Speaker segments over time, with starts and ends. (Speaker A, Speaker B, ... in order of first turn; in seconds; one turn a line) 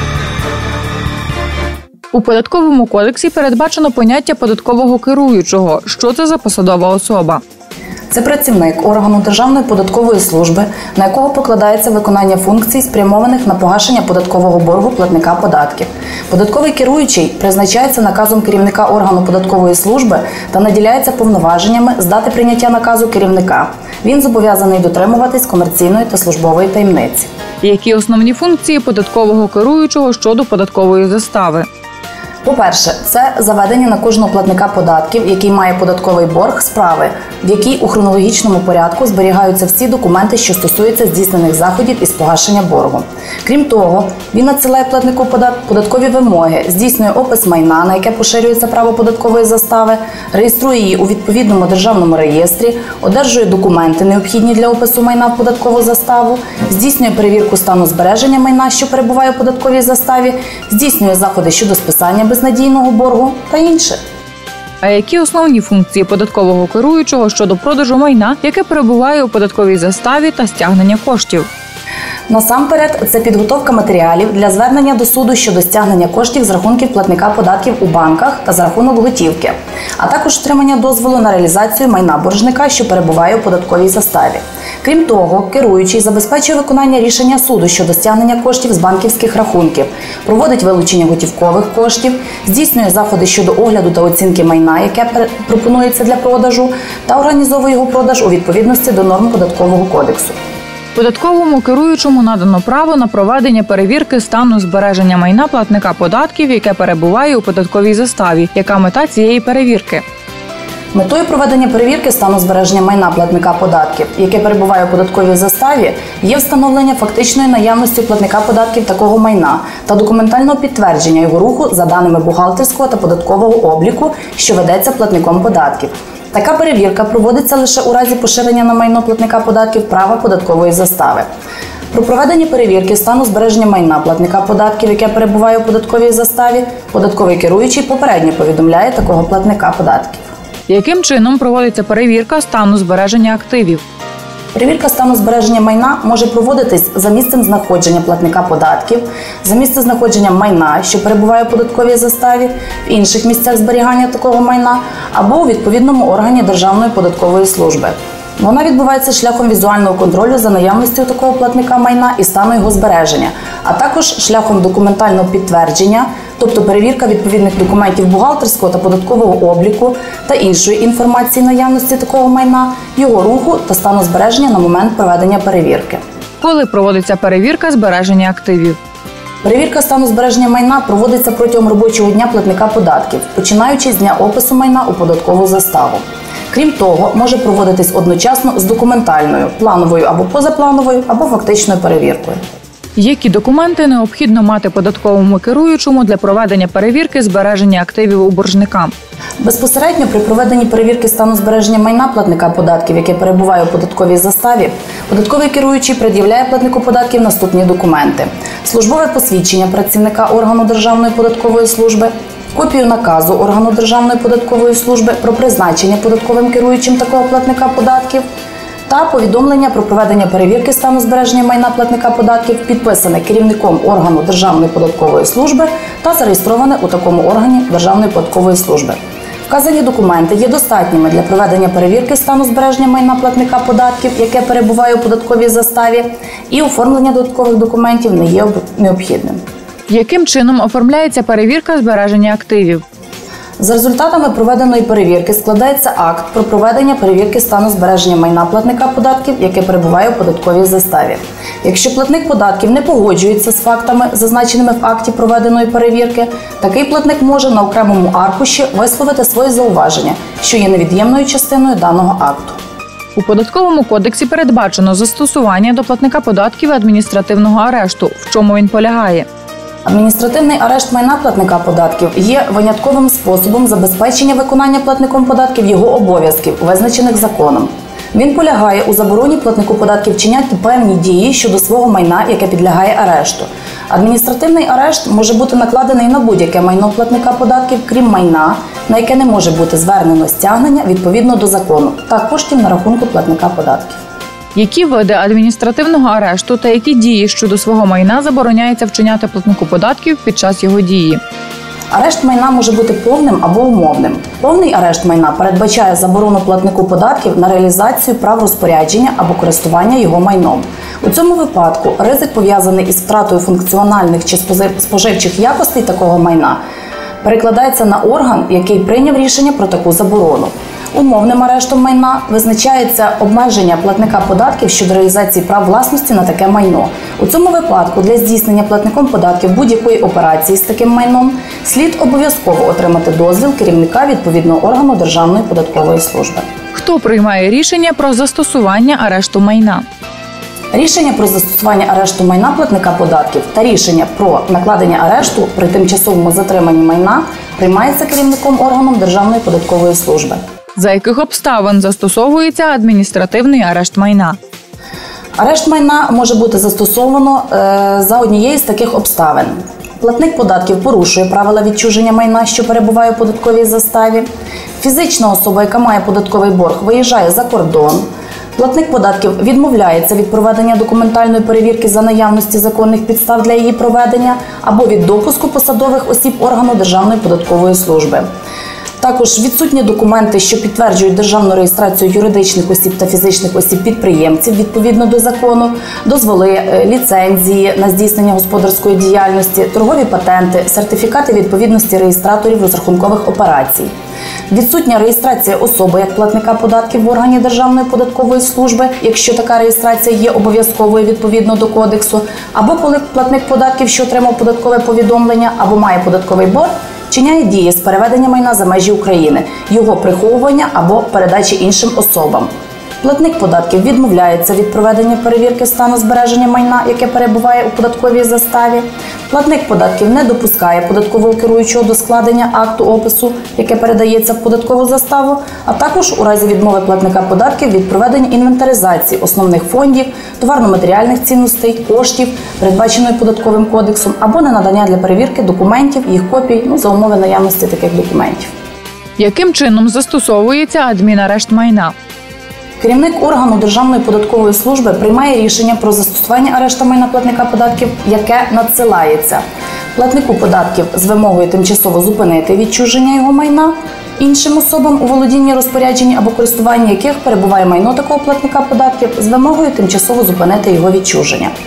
Speaker A: 2.1-7.4
Speaker B: 8.1-27.3
Speaker A: 27.6-31.7
Speaker B: 32.4-64.0
Speaker A: 64.8-71.5
Speaker B: 72.3-100.4
Speaker A: 101.0-110.0
Speaker B: 110.9-131.3
Speaker B: 131.9-140.3
Speaker A: 140.7-143.8
Speaker B: 144.5-176.0
Speaker A: 176.4-178.8
Speaker B: 179.4-192.4
Speaker A: 193.0-198.9
Speaker B: 199.4-218.2
Speaker B: 218.9-229.0
Speaker B: 229.5-239.4
Speaker A: 239.9-242.8
Speaker B: 243.6-262.6
Speaker A: 263.2-269.3
Speaker B: 269.9-294.0
Speaker A: 294.6-301.2
Speaker B: 301.9-316.6
Speaker B: 317.2-336.5
Speaker A: 336.7-339.8
Speaker B: 340.7-350.4
Speaker A: 350.8-354.4
Speaker B: 355.4-364.3
Speaker B: 364.8-378.3
Speaker B: 379.0-393.9
Speaker B: 394.5-412.5
Speaker B: 413.0-438.5
Speaker A: 439.2-441.9
Speaker B: 442.8-449.4
Speaker B: 449.9-461.5